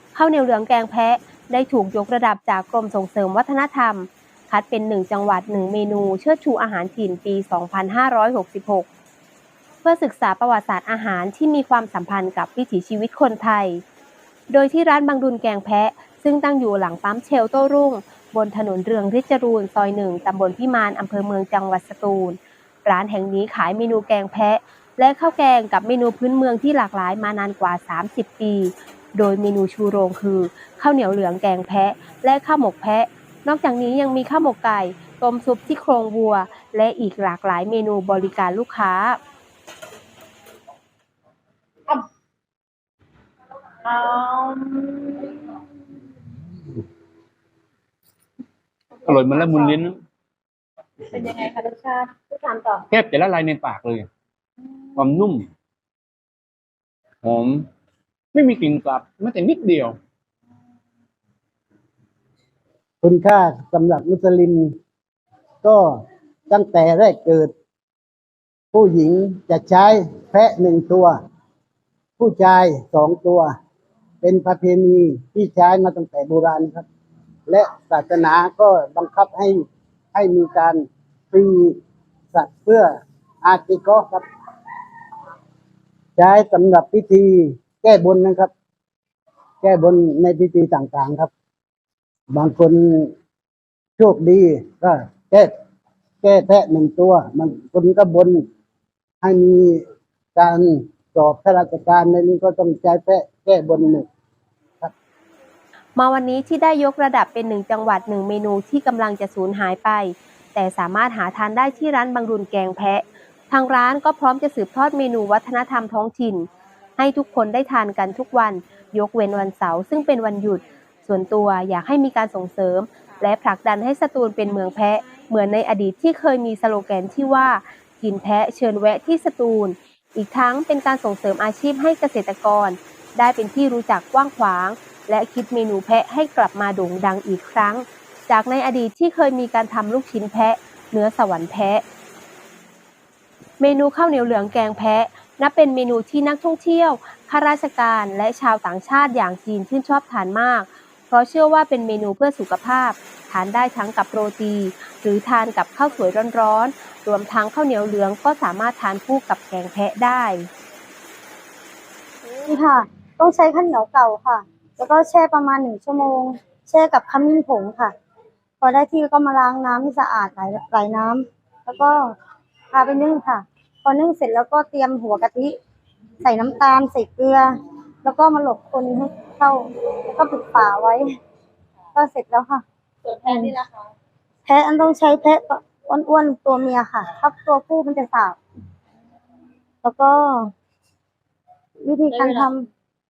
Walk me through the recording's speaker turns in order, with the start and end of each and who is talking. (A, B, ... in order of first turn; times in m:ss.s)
0:00.1-0:08.9 A
0:09.8-0:13.8 A
0:14.5-0:39.2 A
0:43.8-0:45.4 B
0:49.0-0:50.0 C
0:49.1-0:49.7 B
0:51.1-0:52.8 B
0:52.9-0:54.1 C
0:55.0-0:55.5 C
0:57.2-0:57.7 C
0:58.3-1:00.0 C
1:03.0-1:04.7 D
1:06.5-1:07.5 D
1:08.7-1:11.2 D
1:12.2-1:13.5 D
1:14.2-1:16.9 D
1:17.5-1:19.6 D
1:20.1-1:21.8 D
1:22.3-1:22.9 D
1:23.4-1:24.2 D
1:26.2-1:28.5 D
1:29.6-1:31.3 D
1:32.3-1:33.1 D
1:34.0-1:35.5 D
1:36.2-1:38.4 D
1:39.2-1:39.8 D
1:40.4-1:44.1 D
1:46.0-2:21.8 A
2:23.6-2:40.5 A
2:42.4-2:47.9 E
2:48.6-2:52.2 E
2:52.7-2:55.6 E
2:56.2-3:01.1 E
3:02.0-3:02.6 E
3:03.0-3:03.7 B
3:03.3-3:03.5 E
3:04.5-3:08.4 E
3:09.8-3:10.5 E
3:11.8-3:12.7 E
3:12.1-3:12.5 B